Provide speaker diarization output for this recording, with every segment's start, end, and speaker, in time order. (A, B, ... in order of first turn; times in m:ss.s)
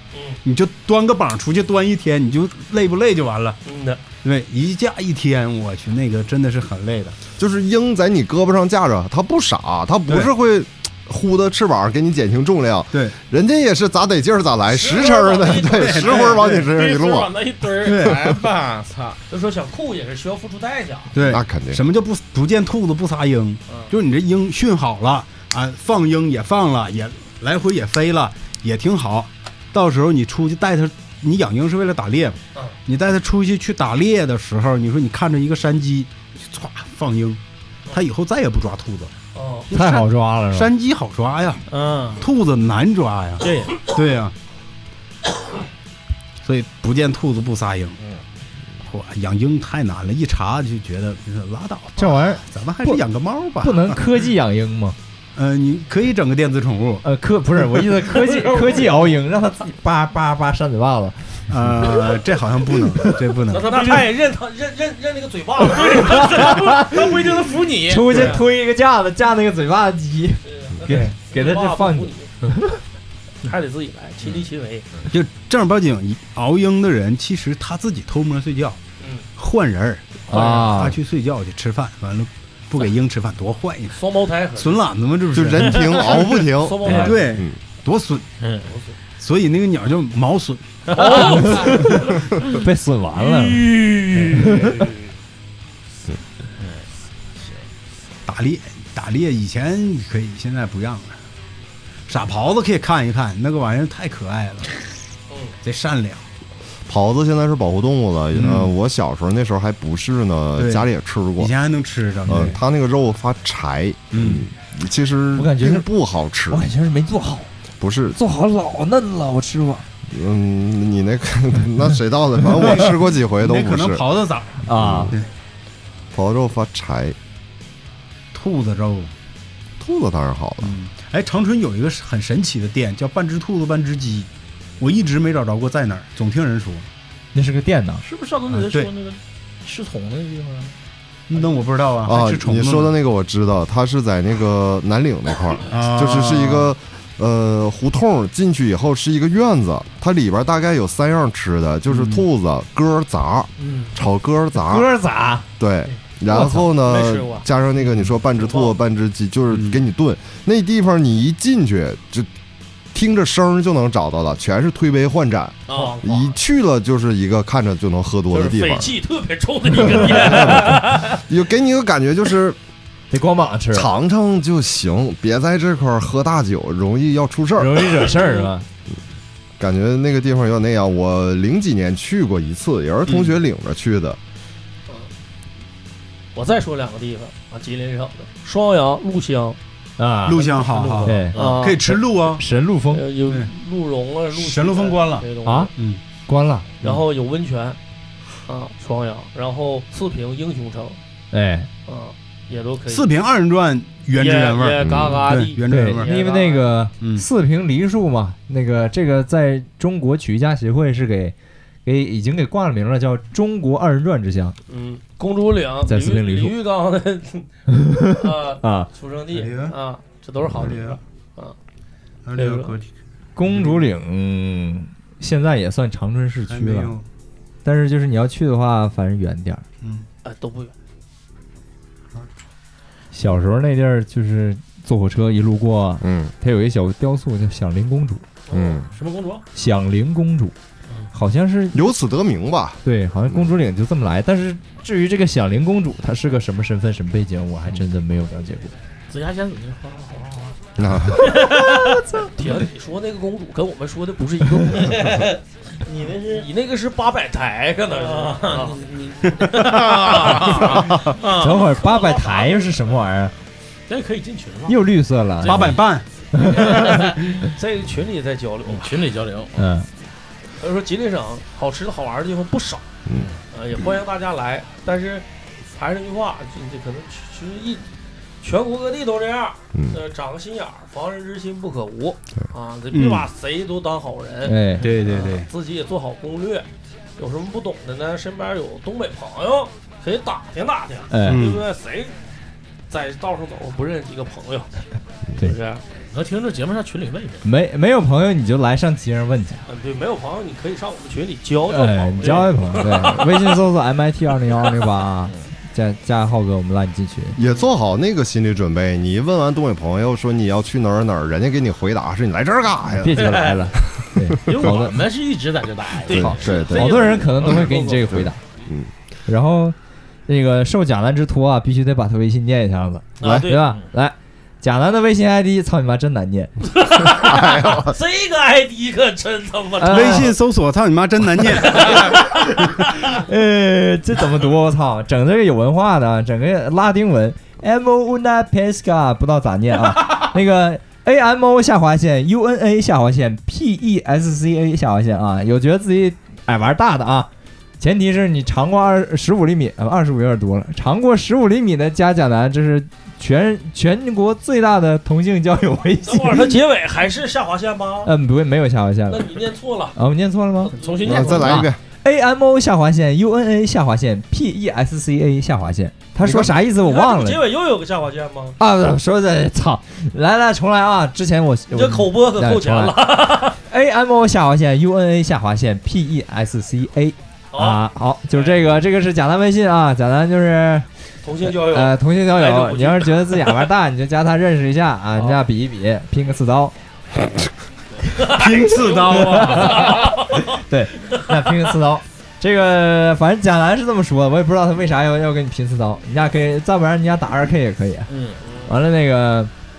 0:00.1-0:00.4 A
0:00.4-0:03.6 B
0:03.6-0:04.0 A
0:04.2-0:07.2 B
0:07.4-0:17.4 C
0:14.7-0:16.4 A
0:15.7-0:16.7 B
0:16.5-0:19.2 D
0:17.8-0:18.4 B
0:19.3-0:21.2 A
0:21.1-0:37.4 B
0:21.2-0:21.8 C
0:37.9-0:39.1 B
0:39.3-0:39.7 A
0:39.7-0:41.6 B
0:39.7-0:40.7 E
0:41.7-0:42.2 D
0:42.2-0:44.3 B
0:43.4-0:43.8 D
0:46.4-0:48.0 B
0:48.8-0:54.0 B
0:52.0-0:53.0 E
0:53.6-0:55.0 E
0:55.4-0:57.0 B
0:57.0-1:02.2 E
0:58.2-0:59.0 D
1:01.5-1:03.7 B
1:02.8-1:03.2 E
1:03.5-1:06.6 A
1:05.8-1:07.1 E
1:06.0-1:08.4 D
1:07.8-1:12.8 E
1:10.4-1:12.3 A
1:13.4-1:14.9 A
1:15.1-1:18.8 B
1:19.0-1:19.2 A
1:19.4-1:24.0 B
1:20.3-1:21.0 E
1:23.9-1:24.8 A
1:24.6-1:26.2 B
1:25.3-1:27.6 C
1:26.1-1:27.4 A
1:26.8-1:27.1 E
1:26.8-1:28.2 B
1:28.4-1:28.7 D
1:28.6-1:29.0 A
1:29.2-1:31.0 B
1:30.9-1:31.9 D
1:30.9-1:32.0 A
1:31.2-1:34.8 E
1:33.6-1:34.7 A
1:33.7-1:34.9 D
1:36.6-1:36.9 D
1:38.2-1:41.2 B
1:42.1-1:44.7 B
1:45.3-1:45.5 A
1:45.6-1:46.2 B
1:46.9-1:51.5 C
1:48.3-1:48.7 B
1:50.6-1:50.8 B
1:51.4-1:52.6 B
1:52.2-1:56.6 C
1:54.1-1:54.4 B
1:55.4-1:55.9 E
1:56.5-1:57.5 E
1:57.8-1:58.2 C
1:58.1-1:59.8 E
2:00.1-2:05.2 C
2:02.5-2:05.3 B
2:04.6-2:05.1 E
2:06.1-2:07.2 C
2:08.3-2:09.1 B
2:09.8-2:10.8 C
2:10.6-2:16.9 B
2:17.3-2:18.0 E
2:18.0-2:20.7 D
2:18.5-2:18.9 B
2:21.3-2:22.9 B
2:22.0-2:34.9 C
2:25.7-2:26.7 B
2:31.9-2:32.2 B
2:33.6-2:33.9 D
2:34.6-2:35.5 E
2:35.6-2:42.3 C
2:36.3-2:36.7 E
2:36.3-2:37.5 A
2:38.3-2:38.7 A
2:39.5-2:39.8 B
2:42.9-2:48.9 C
2:45.7-2:46.3 A
2:45.7-2:46.0 D
2:48.3-2:51.2 A
2:49.8-2:52.6 C
2:53.1-2:53.9 E
2:53.7-2:58.0 C
2:57.6-2:58.6 E
2:58.0-2:58.5 A
2:59.6-3:04.2 C
3:06.3-3:09.6 A
3:10.0-3:10.4 E
3:10.2-3:12.4 B
3:10.5-3:11.8 D
3:10.9-3:11.8 A
3:11.0-3:13.0 E
3:12.9-3:15.7 A
3:14.3-3:16.0 B
3:15.2-3:15.5 D
3:15.4-3:15.7 E
3:16.3-3:16.7 E
3:16.8-3:17.8 A
3:18.4-3:21.0 A
3:21.3-3:21.7 E
3:21.9-3:23.1 A
3:22.9-3:26.1 B
3:24.1-3:26.6 A
3:24.8-3:25.3 C
3:25.7-3:34.6 E
3:27.0-3:27.2 B
3:34.7-3:37.5 A
3:35.9-3:36.5 E
3:37.7-3:38.9 E
3:38.0-3:41.6 A
3:39.3-3:39.8 B
3:40.5-3:41.0 B
3:42.2-3:42.9 B
3:42.4-3:42.8 A
3:43.4-3:47.0 E
3:43.4-3:43.9 B
3:46.5-3:47.0 B
3:47.6-3:49.6 E
3:50.2-3:50.7 A
3:53.1-3:58.2 E
3:56.0-3:56.3 C
3:58.5-3:58.8 A
3:58.5-3:58.9 C
3:58.9-3:59.4 D
3:59.5-4:00.5 E
4:01.1-4:01.9 E
4:01.7-4:03.5 C
4:02.8-4:08.7 E
4:09.1-4:10.6 D
4:10.8-4:11.4 C
4:11.2-4:12.0 D
4:11.3-4:12.6 E
4:12.4-4:15.3 A
4:14.5-4:16.5 D
4:16.3-4:18.9 A
4:17.9-4:21.6 D
4:19.7-4:22.9 A
4:21.3-4:23.3 E
4:23.9-4:25.8 D
4:24.7-4:25.8 E
4:25.4-4:26.0 B
4:26.3-4:27.0 E
4:26.3-4:27.3 D
4:27.2-4:29.0 A
4:28.6-4:29.7 D
4:29.5-4:29.9 E
4:30.6-4:32.8 A
4:33.1-4:33.4 D
4:33.5-4:37.8 A
4:38.4-4:46.6 A
4:42.9-4:43.3 B
4:44.4-4:45.0 E
4:44.8-4:45.5 B
4:47.2-4:52.1 A
4:51.1-4:51.4 E
4:51.2-4:51.6 B
4:52.9-4:54.8 A
4:55.4-4:55.8 A
4:56.1-4:57.5 D
4:57.4-4:59.6 E
4:59.7-5:03.5 A
5:01.7-5:07.4 E
5:07.4-5:14.8 C
5:13.0-5:15.0 E
5:13.2-5:13.7 D
5:14.4-5:16.8 D
5:16.0-5:17.9 A
5:16.1-5:18.4 E
5:16.2-5:18.9 C
5:17.6-5:17.9 D
5:19.3-5:19.7 E
5:20.3-5:26.5 E
5:23.2-5:23.7 A
5:23.2-5:23.5 C
5:26.6-5:30.3 A
5:27.0-5:27.9 C
5:29.8-5:30.3 E
5:29.9-5:32.2 B
5:31.8-5:56.6 E
5:31.8-5:32.1 A
5:56.0-5:58.1 A
5:58.0-6:00.7 E
5:59.1-6:00.0 A
6:00.6-6:01.5 A
6:00.8-6:01.5 D
6:01.0-6:01.8 C
6:01.3-6:07.4 E
6:06.2-6:06.5 C
6:06.6-6:08.6 A
6:08.6-6:20.9 E
6:11.7-6:13.6 A
6:17.5-6:17.8 A
6:18.3-6:18.6 A
6:21.2-6:23.6 A
6:21.4-6:26.7 E
6:28.2-6:30.5 A
6:28.2-6:29.9 B
6:28.9-6:38.1 E
6:29.7-6:30.1 D
6:38.1-6:38.4 D
6:38.4-6:38.7 A
6:38.7-6:39.5 E